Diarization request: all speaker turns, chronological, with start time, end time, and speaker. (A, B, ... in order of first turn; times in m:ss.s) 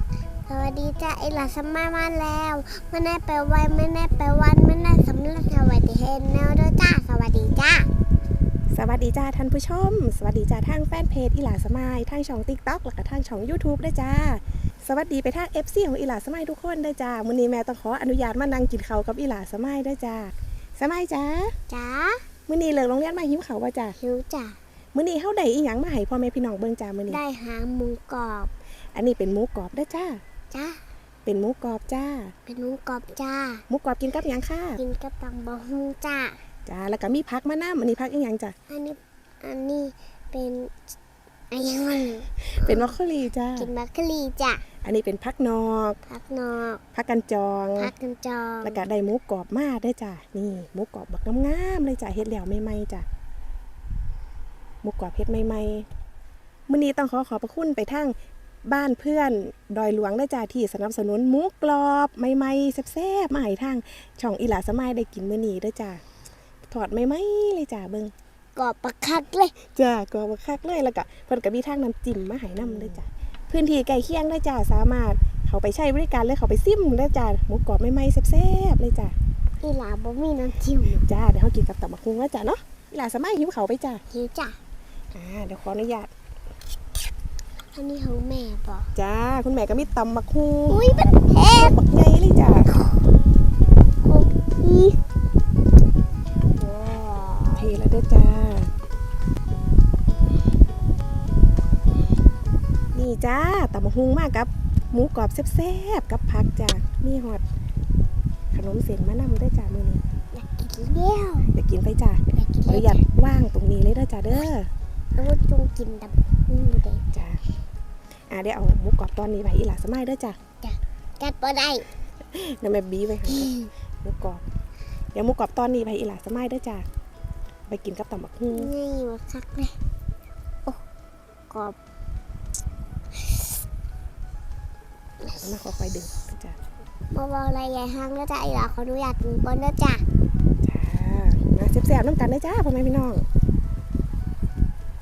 0:00.5-0:07.9 A
0:08.7-0:21.6 B
0:21.7-0:22.2 A
0:22.5-0:24.0 B
0:24.0-0:24.6 A
0:24.9-0:27.2 B
0:27.1-0:28.5 A
0:28.9-0:30.2 B
0:30.5-0:30.8 A
0:31.2-0:32.3 B
0:32.5-0:33.6 A
0:33.7-0:34.8 B
0:34.8-0:36.4 A
0:36.6-0:38.5 B
0:38.7-0:40.8 A
0:41.5-0:43.0 A
0:42.5-0:43.7 B
0:43.6-0:44.6 A
0:44.8-0:46.0 B
0:46.1-0:46.8 A
0:46.9-0:47.9 B
0:47.8-0:48.8 A
0:48.6-0:53.0 B
0:54.8-0:55.9 B
0:56.7-1:06.0 B
1:06.7-1:08.1 B
1:08.6-1:09.6 A
1:09.7-1:19.1 B
1:19.6-1:21.0 A
1:21.0-1:24.0 B
1:24.1-1:24.6 A
1:25.1-1:26.1 B
1:27.7-1:28.9 A
1:28.9-1:30.8 B
1:30.7-1:31.8 A
1:31.5-1:32.7 B
1:32.7-1:33.0 A
1:34.0-1:35.0 A
1:36.6-1:37.7 A
1:37.6-1:38.7 B
1:42.9-1:47.4 B
1:48.5-1:50.0 B
1:50.3-1:51.5 A
1:51.5-1:54.7 B
1:52.3-1:53.0 A
1:55.1-1:57.1 A
1:57.1-1:57.4 B
1:58.3-2:00.4 B
2:00.6-2:01.8 A
2:02.3-2:04.4 B
2:05.1-2:06.8 B
2:07.7-2:08.7 B
2:08.5-2:09.8 A
2:11.5-2:11.8 A
2:15.2-2:16.6 B
2:17.1-2:20.0 A
2:20.6-2:23.2 B